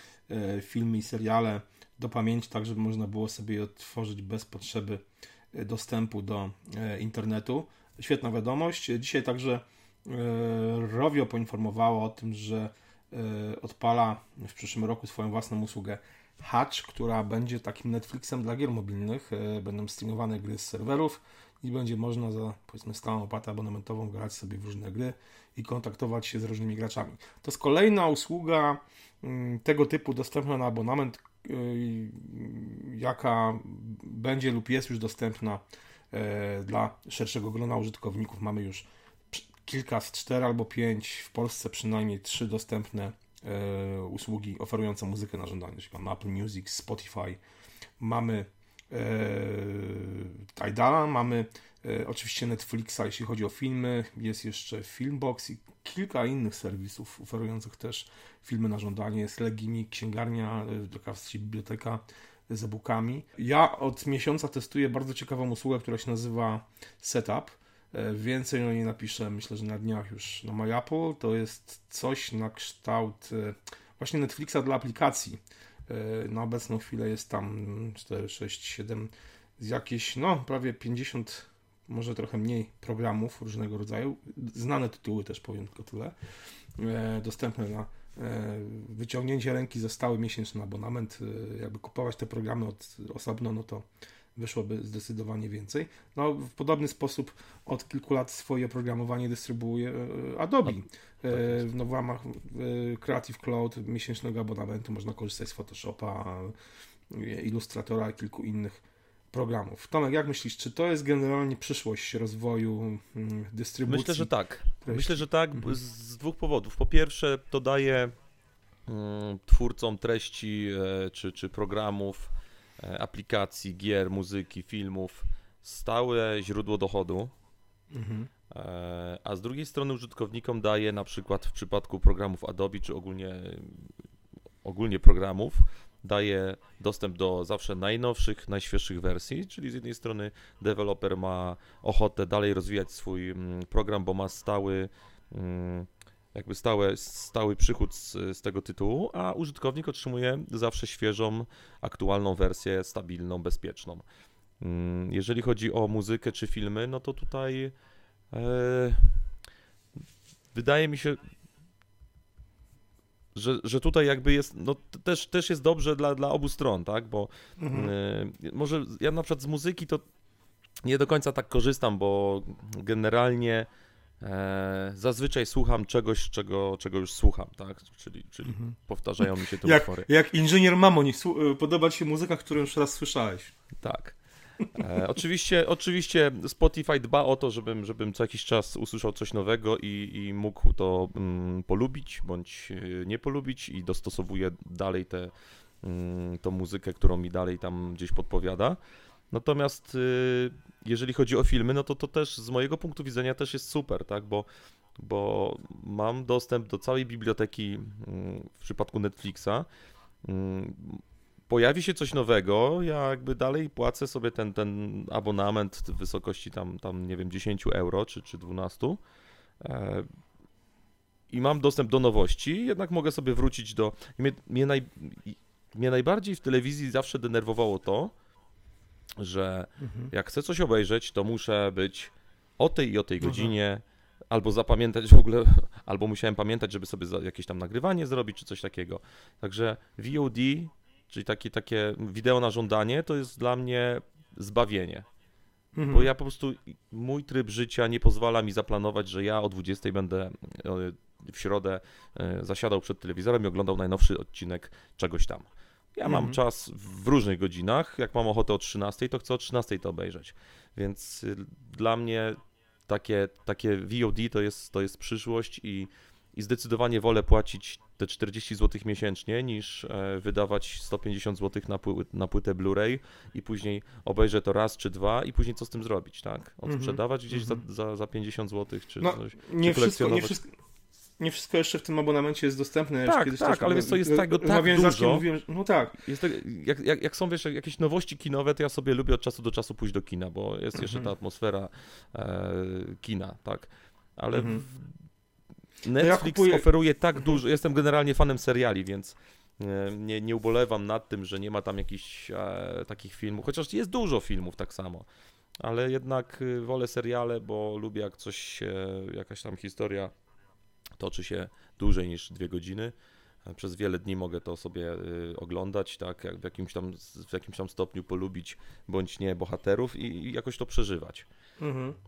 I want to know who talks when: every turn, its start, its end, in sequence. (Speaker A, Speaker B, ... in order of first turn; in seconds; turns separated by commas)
Speaker A: 0.3-5.0, Speaker A: 5.5-47.4, Speaker A: 48.0-86.2, Speaker A: 86.8-93.8, Speaker A: 94.4-106.5, Speaker B: 101.3-101.7, Speaker A: 107.1-114.3, Speaker B: 113.9-118.1, Speaker A: 114.8-115.8, Speaker B: 118.9-127.3, Speaker A: 127.9-128.3, Speaker B: 128.5-133.9, Speaker B: 134.6-154.0, Speaker B: 154.6-157.7, Speaker B: 158.3-159.2, Speaker B: 160.5-161.2, Speaker B: 163.3-170.0, Speaker A: 167.6-167.9, Speaker B: 170.8-173.7, Speaker B: 174.2-180.1, Speaker A: 178.5-178.8, Speaker A: 179.6-183.5, Speaker B: 183.8-198.8, Speaker B: 199.3-204.5, Speaker B: 205.0-209.7, Speaker B: 210.2-219.0, Speaker B: 219.6-220.1, Speaker B: 221.3-228.1, Speaker B: 229.2-245.1, Speaker A: 229.8-230.1, Speaker A: 233.2-233.5, Speaker A: 245.8-246.1, Speaker B: 245.9-255.4, Speaker B: 256.0-262.4, Speaker A: 256.1-256.4, Speaker B: 262.9-280.4, Speaker A: 276.7-277.6, Speaker A: 279.0-280.5, Speaker A: 281.2-286.0, Speaker B: 283.1-285.3, Speaker B: 286.0-294.9, Speaker A: 290.8-291.1, Speaker A: 294.3-294.6, Speaker B: 295.8-305.1, Speaker A: 296.0-296.7, Speaker B: 305.6-310.1, Speaker B: 311.0-312.9, Speaker B: 313.5-321.3, Speaker A: 321.6-322.0